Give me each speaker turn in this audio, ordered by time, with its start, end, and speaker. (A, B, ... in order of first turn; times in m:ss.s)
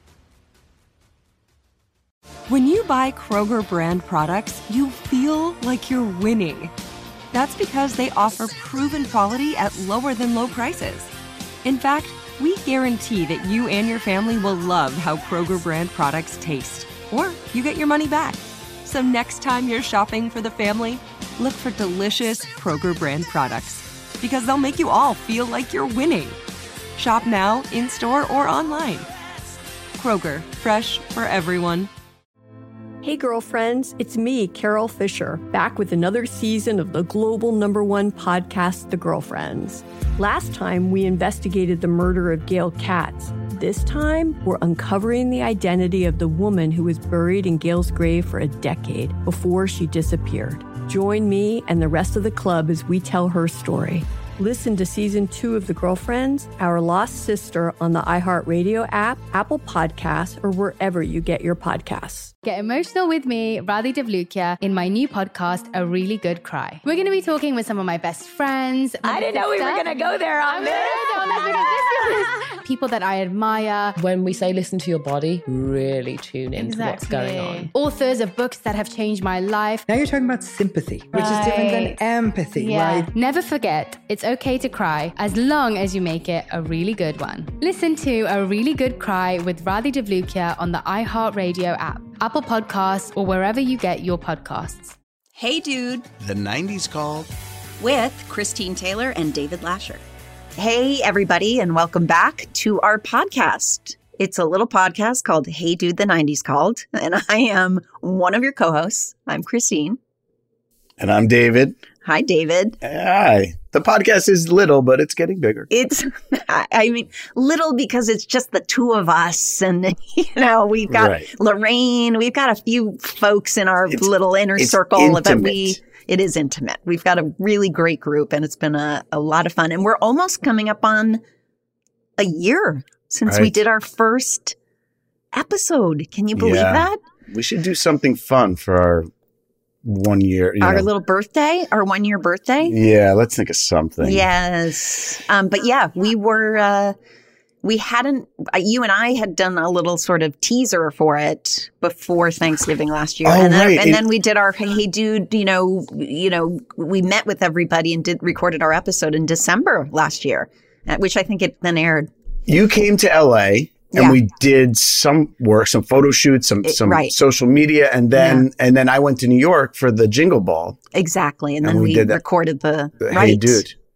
0:02.5-0:06.7 A
0:07.3-0:11.1 A
0:11.6-0:26.4 A
0:27.0-0:29.1 A
0:30.0-0:31.9 A
0:33.0-1:02.3 B
1:02.4-1:14.0 C
1:09.0-1:11.5 A
1:14.0-1:17.7 D
1:16.6-1:19.8 C
1:19.9-1:23.1 E
1:21.2-1:21.9 C
1:22.6-1:35.0 C
1:35.4-1:36.1 F
1:36.2-1:37.3 G
1:37.8-1:40.0 F
1:40.6-1:50.0 F
1:51.0-1:51.7 G
1:52.0-1:52.8 F
1:52.8-1:55.7 G
1:55.7-2:11.2 F
2:00.9-2:01.3 G
2:03.9-2:05.8 G
2:12.2-2:14.6 F
2:13.3-2:13.5 G
2:15.3-2:17.0 F
2:16.3-2:19.1 G
2:19.8-2:20.9 G
2:20.6-2:22.7 F
2:22.6-2:24.2 G
2:24.0-2:26.9 F
2:27.6-2:42.1 F
2:33.2-2:34.0 G
2:42.5-2:50.8 G
2:46.6-2:47.1 F
2:48.1-2:48.4 F
2:50.9-2:53.6 F
2:51.6-2:52.2 G
2:53.0-2:53.7 G